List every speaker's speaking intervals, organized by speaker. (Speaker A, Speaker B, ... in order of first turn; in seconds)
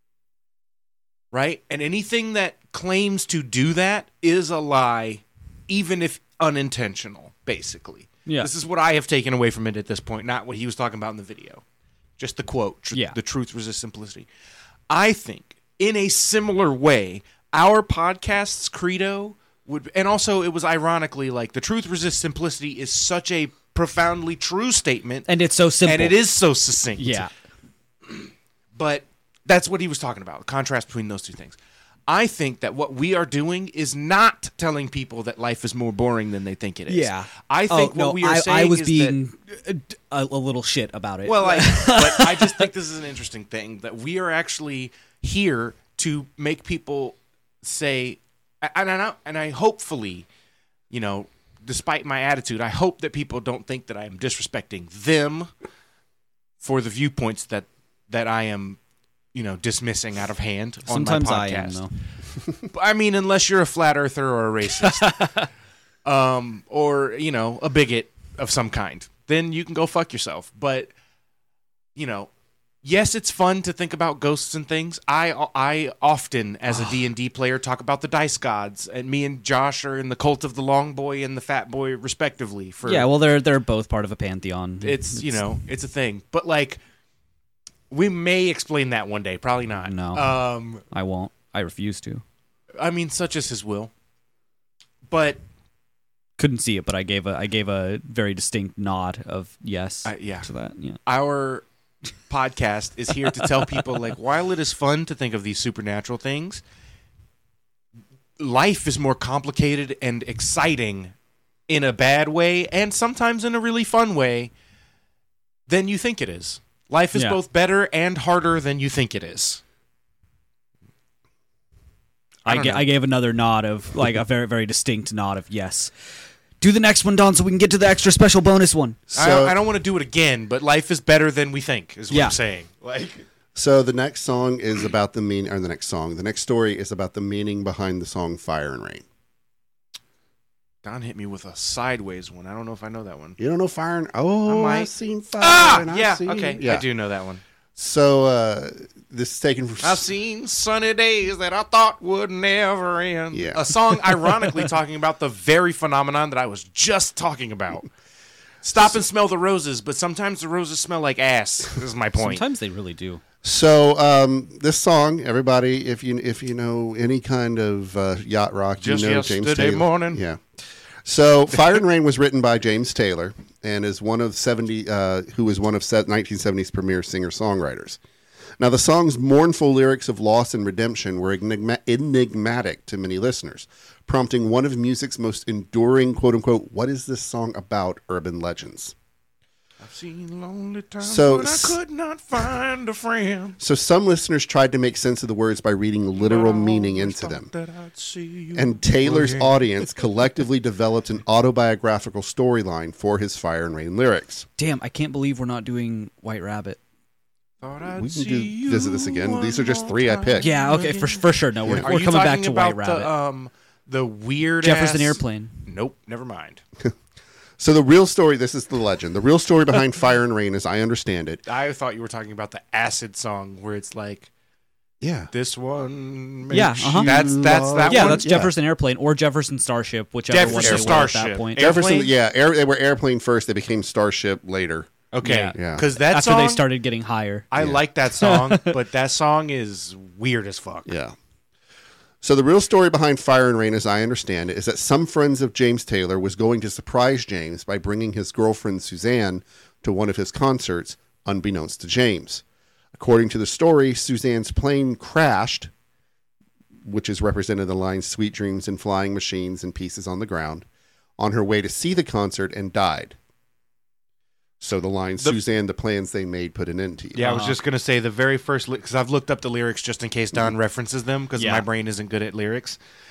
Speaker A: 1.3-11.6, 12.2-14.3, 14.9-25.3, 25.8-27.3, 28.1-31.6, 32.1-39.1, 41.2-50.3, 50.9-55.5, 56.6-58.8, 59.3-61.8, 62.6-65.3, 66.0-70.9, 72.0-72.3, 72.8-83.1, 84.8-86.8, 87.9-90.8, 92.8-93.9, 95.1-95.4, 100.0-100.5, 101.1-101.6, 102.3-106.6, 108.4-111.1, 111.7-114.5, 115.7-119.6, 122.4-122.9, 129.1-133.2, 140.8-143.4, 144.5-147.4, 149.8-157.9, 158.6-162.4, 168.8-170.2, 189.8-193.6, 196.2-199.9, 207.6-216.6, 221.5-224.3, 225.3-228.3, 230.3-232.1, 235.1-236.7, 237.5-240.9, 267.1-272.8
Speaker B: 25.3-26.2, 27.0-27.3, 36.9-42.6, 60.9-61.9, 64.8-65.5, 82.8-85.4, 89.8-90.3, 90.9-92.2, 96.4-101.0, 103.3-103.8, 122.5-125.9, 126.6-129.0, 132.1-132.4, 162.2-163.2, 204.6-206.8, 210.4-213.1, 214.6-215.5, 226.5-227.1, 227.9-231.6, 235.2-237.5, 238.2-238.7, 267.2-267.6, 271.4-271.6
Speaker C: 129.1-129.6, 133.6-139.1, 143.4-146.8, 147.8-150.1, 153.3-153.7, 163.4-170.4, 171.1-178.0, 178.6-188.9, 191.0-191.8, 193.6-197.5, 198.6-204.4, 207.9-210.5, 217.6-221.4, 225.0-225.3, 227.0-228.5, 230.5-231.0, 231.6-234.9, 235.6-235.8, 237.6-237.8, 240.9-241.1, 242.2-252.4, 252.9-255.7, 256.9-260.6, 261.2-263.1, 264.6-267.3